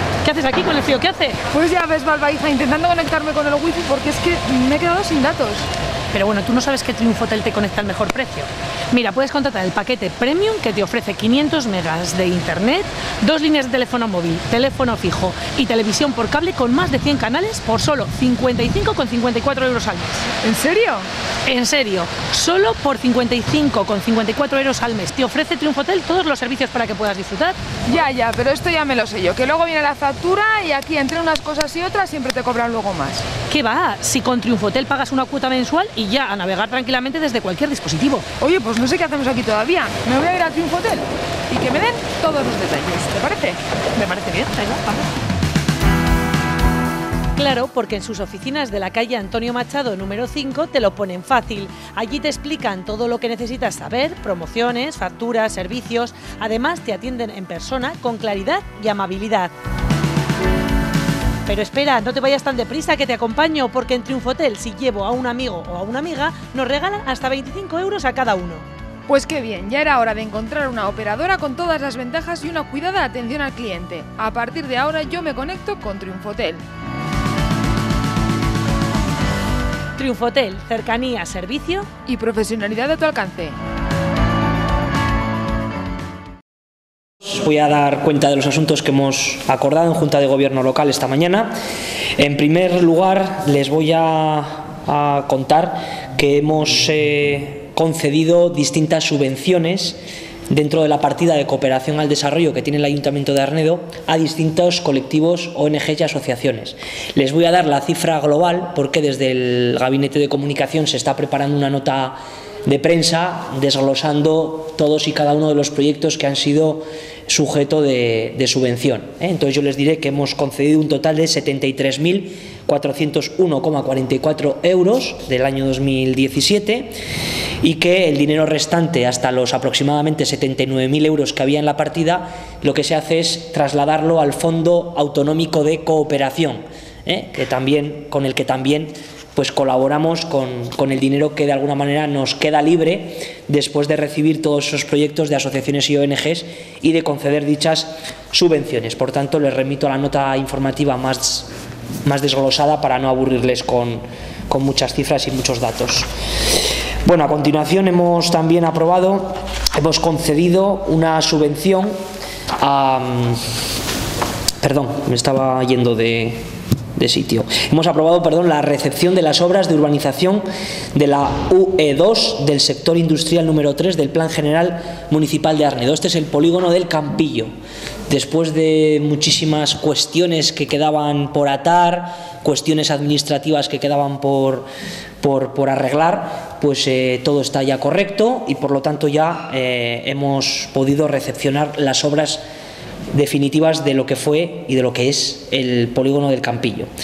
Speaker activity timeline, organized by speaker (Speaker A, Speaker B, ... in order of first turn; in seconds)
Speaker A: 0.2-1.4, 6.1-20.3, 21.5-27.6, 33.5-38.2, 44.0-45.1, 47.4-59.5, 61.5-68.7, 80.0-81.9
Speaker B: 1.5-5.7, 20.4-21.1, 27.9-33.2, 38.4-43.6, 69.1-76.6, 82.1-83.5
Speaker C: 87.2-91.5, 92.2-100.0, 100.5-127.0, 127.6-151.5, 152.1-156.1, 157.1-161.9, 162.6-163.4, 164.6-166.4, 167.0-177.5, 178.1-184.7, 185.2-192.4, 193.1-196.9